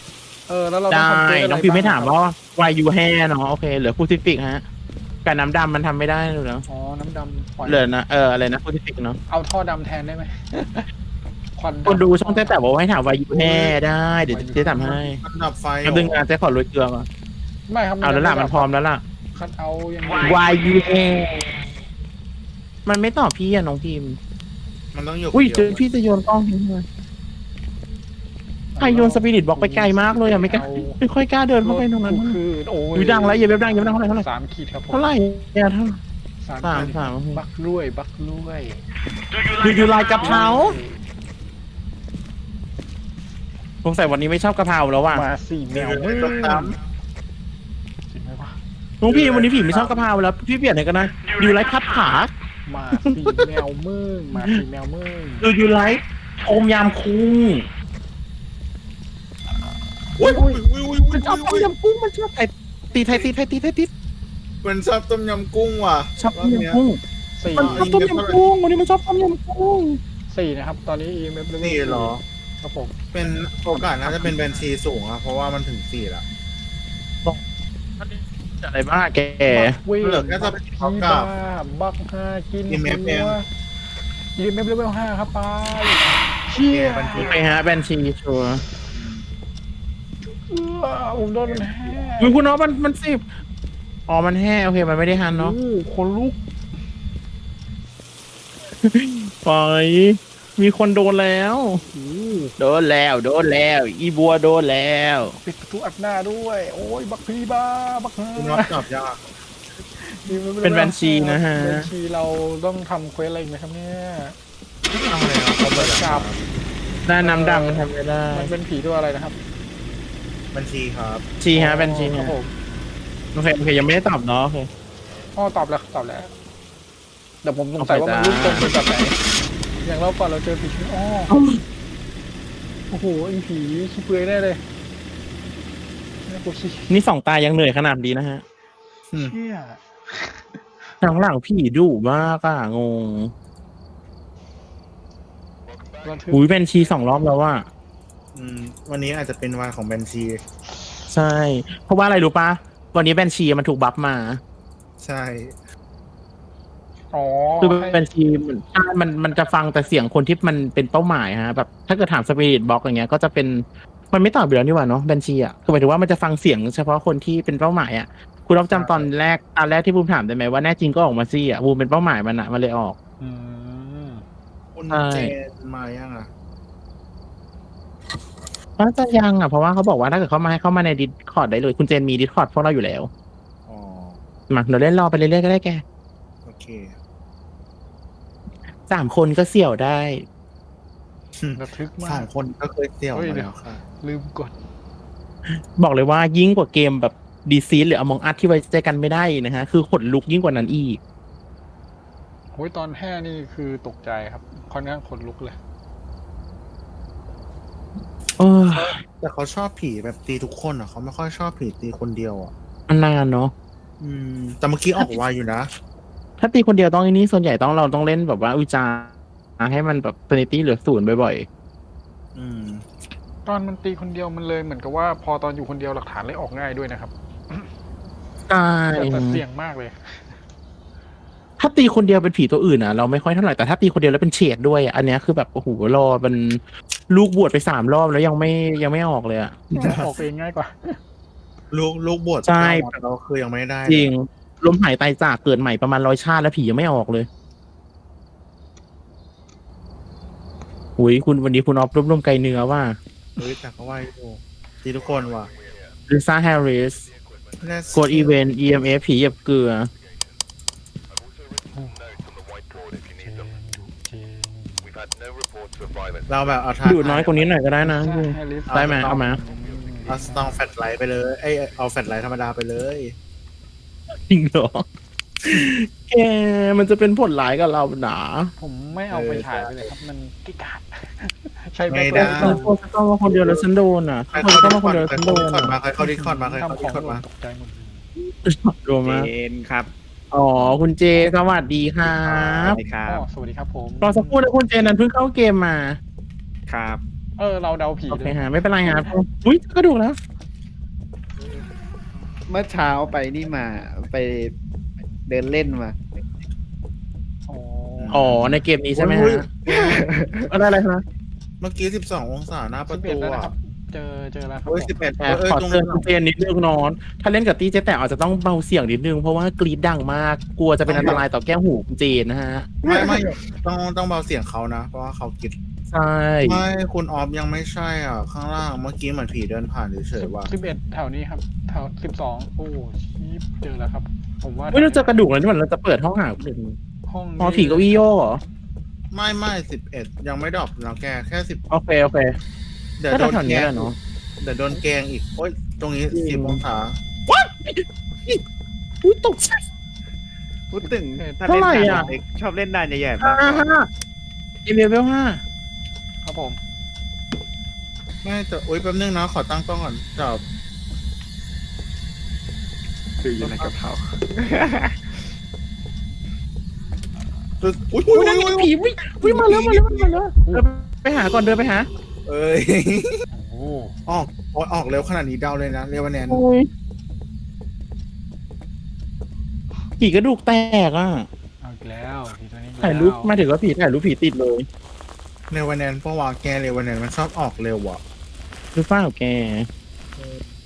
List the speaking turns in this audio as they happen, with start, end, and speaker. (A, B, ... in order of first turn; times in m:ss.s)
0:00.5-0:02.2 A
0:00.9-0:04.6 B
0:05.2-0:06.6 B
0:06.7-0:07.9 A
0:07.6-0:09.2 B
0:09.3-0:10.9 A
0:11.6-0:12.6 A
0:11.8-0:15.2 B
0:13.3-0:13.8 C
0:14.3-0:15.0 A
0:15.2-0:16.3 C
0:15.8-0:17.1 B
0:17.7-0:18.7 A
0:18.0-0:19.0 B
0:19.4-0:20.8 A
0:20.2-0:21.6 B
0:22.9-0:24.2 B
0:24.9-0:25.9 C
0:25.3-0:26.9 B
0:28.8-0:31.0 A
0:28.8-0:32.4 B
0:31.6-0:35.1 A
0:32.9-0:34.3 B
0:34.9-0:36.0 B
0:36.4-0:38.8 A
0:36.6-0:37.4 B
0:39.5-0:40.8 B
0:39.6-0:41.0 A
0:43.8-0:45.2 B
0:45.1-0:46.8 A
0:45.7-0:46.8 C
0:48.1-0:48.6 A
0:49.0-0:52.3 B
0:49.0-0:50.1 C
0:52.7-0:55.5 A
0:53.2-0:53.5 B
0:54.4-0:54.6 B
0:55.4-0:57.7 B
1:00.2-1:01.7 C
1:00.2-1:00.6 A
1:01.1-1:03.9 B
1:04.6-1:06.8 C
1:06.2-1:07.0 B
1:07.4-1:08.0 A
1:07.6-1:10.0 B
1:07.6-1:08.4 C
1:10.3-1:13.0 A
1:11.6-1:12.2 C
1:13.1-1:16.2 C
1:14.0-1:14.4 B
1:18.0-1:19.8 B
1:19.5-1:23.5 A
1:20.0-1:21.3 C
1:22.7-1:23.4 C
1:24.4-1:27.5 A
1:26.6-1:27.6 C
1:27.2-1:28.6 B
1:28.9-1:29.3 C
1:30.2-1:32.4 A
1:31.4-1:32.0 C
1:32.2-1:33.2 B
1:34.1-1:35.6 B
1:35.2-1:36.4 A
1:38.8-1:41.8 B
1:41.9-1:42.5 A
1:42.6-1:45.4 B
1:45.4-1:48.8 A
1:48.4-1:49.2 C
1:50.0-1:54.4 A
1:50.6-1:51.9 B
1:55.0-1:56.4 C
1:55.6-1:56.3 A
1:57.0-1:58.5 B
1:57.2-1:59.4 A
2:00.5-2:01.2 C
2:01.4-2:02.3 B
2:01.5-2:02.5 A
2:03.3-2:04.7 B
2:05.4-2:06.3 A
2:07.4-2:09.2 A
2:07.8-2:08.7 B
2:09.8-2:11.4 A
2:11.3-2:11.6 B
2:12.9-2:14.6 A
2:16.3-2:17.0 A
2:16.9-2:18.4 B
2:19.2-2:20.6 A
2:21.0-2:23.3 B
2:26.0-2:26.5 A
2:26.3-2:27.7 B
2:28.4-2:30.4 C
2:31.1-2:34.4 B
2:35.0-2:35.6 C
2:37.1-2:38.0 A
2:37.6-2:53.0 B
2:48.7-2:49.1 C
2:53.2-2:54.2 A
2:54.8-2:56.3 C
2:54.9-2:55.3 B
2:58.8-3:03.1 B
3:03.7-3:04.2 C
3:04.5-3:05.8 B
3:06.4-3:07.0 C
3:08.9-3:10.2 B
3:11.4-3:13.8 C
3:11.6-3:12.3 A
3:13.1-3:14.6 A
3:15.8-3:21.0 B
3:22.5-3:25.6 A
3:28.4-3:29.0 B
3:28.7-3:32.5 C
3:32.9-3:33.5 B
3:34.0-3:35.7 C
3:35.0-3:35.2 B
3:36.4-3:41.5 B
3:42.4-3:42.8 C
3:43.5-3:47.7 A
3:48.5-3:49.4 B
3:48.9-3:50.4 A
3:51.6-3:59.6 B
3:59.7-4:01.0 A
3:59.8-4:00.1 C
4:01.7-4:04.1 C
4:02.4-4:02.9 B
4:03.9-4:07.3 B
4:11.0-4:13.0 B
4:13.4-4:15.5 C
4:16.1-4:17.1 B
4:17.6-4:18.4 C
4:17.9-4:19.9 B
4:21.7-4:22.2 A
4:23.1-4:25.0 A
4:26.3-4:27.3 C
4:26.8-4:29.4 B
4:27.8-4:30.6 A
4:28.7-4:33.2 C
4:34.3-4:34.8 B
4:35.4-4:38.5 B
4:38.6-4:42.7 A
4:39.1-4:39.8 C
4:41.9-4:42.7 C
4:42.1-4:45.7 B
4:44.3-4:47.2 C
4:46.0-4:48.0 A
4:48.2-4:49.3 B
4:49.0-4:49.9 D
4:50.3-4:52.8 B
4:52.2-4:53.2 D
4:53.0-4:54.4 A
4:54.0-4:56.0 B
4:56.7-4:57.0 D
4:57.4-4:59.1 A
4:58.1-5:00.2 B
5:02.5-5:04.5 D
5:05.3-5:06.0 D
5:07.5-5:08.3 A
5:08.0-5:10.1 C
5:08.1-5:09.5 B
5:09.7-5:10.5 D
5:10.5-5:11.0 B
5:11.6-5:13.5 C
5:12.9-5:15.0 A
5:14.7-5:16.1 C
5:15.2-5:22.8 B
5:20.9-5:21.2 C
5:22.8-5:25.6 C
5:25.9-5:26.6 B
5:26.4-5:30.5 C
5:30.2-5:35.2 A
5:34.7-5:36.8 B
5:37.1-5:38.0 A
5:37.4-5:38.4 B
5:39.1-5:41.6 C
5:41.7-5:42.4 B
5:43.0-5:47.0 C
5:43.1-5:44.0 B
5:46.1-5:46.6 B
5:47.3-5:48.4 B
5:49.0-5:49.6 B
5:50.7-5:53.7 D
5:50.8-5:52.2 A
5:51.4-5:52.1 B
5:53.2-5:53.9 B
5:54.6-5:55.4 B
5:56.2-5:56.6 A
5:58.2-6:00.4 C
6:03.2-6:05.1 D
6:03.4-6:03.7 C
6:07.6-6:10.1 C
6:08.1-6:11.9 B
6:12.3-6:13.2 C
6:13.3-6:14.0 A
6:14.1-6:16.4 C
6:16.3-6:16.7 B
6:20.0-6:21.3 B
6:21.6-6:23.4 A
6:22.8-6:24.7 B
6:25.5-6:28.0 C
6:28.8-6:29.7 B